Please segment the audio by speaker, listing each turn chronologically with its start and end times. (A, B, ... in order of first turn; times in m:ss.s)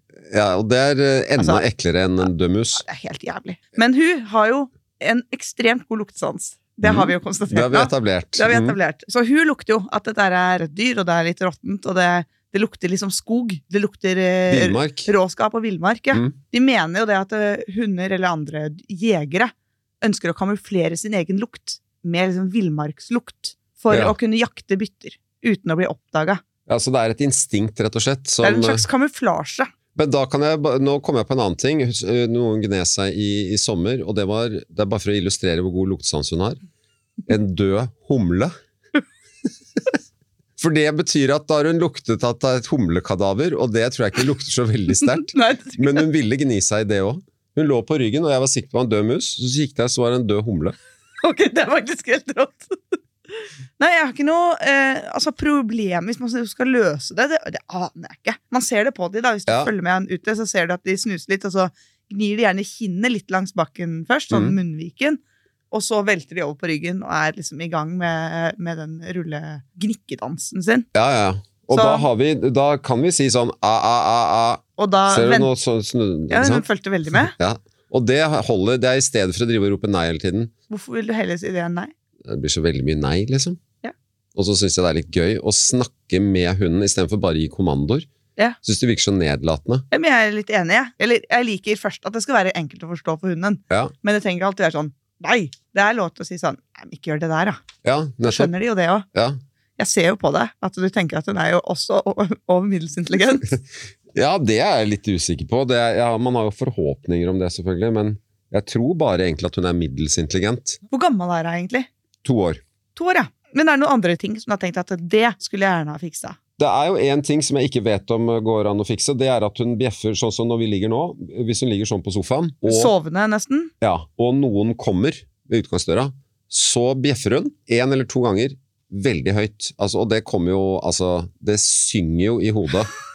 0:00.3-0:02.8 A
0:01.4-0:01.6 B
0:02.8-0:26.4 B
0:06.8-0:08.8 A
0:14.5-0:15.1 A
0:23.9-0:24.1 A
0:26.7-0:28.8 A
0:28.4-0:29.7 B
0:29.9-0:36.6 A
0:37.3-0:38.5 A
0:40.6-0:50.7 A
0:45.0-0:46.1 B
0:51.2-1:05.2 B
1:04.3-1:04.6 A
1:05.7-1:10.8 B
1:10.9-1:20.5 A
1:11.7-1:12.1 B
1:14.8-1:15.5 B
1:16.3-1:17.3 B
1:20.7-1:21.9 B
1:22.2-1:23.6 A
1:24.3-1:28.1 A
1:28.6-1:29.8 A
1:29.9-1:37.6 B
1:37.8-1:38.5 A
1:38.2-1:39.0 B
1:39.1-1:39.4 A
1:39.8-1:43.5 B
1:44.1-1:50.8 A
1:50.9-1:51.9 B
1:52.2-1:52.6 A
1:52.9-1:56.4 B
1:56.6-2:02.9 A
2:02.6-2:03.7 B
2:03.8-2:12.9 A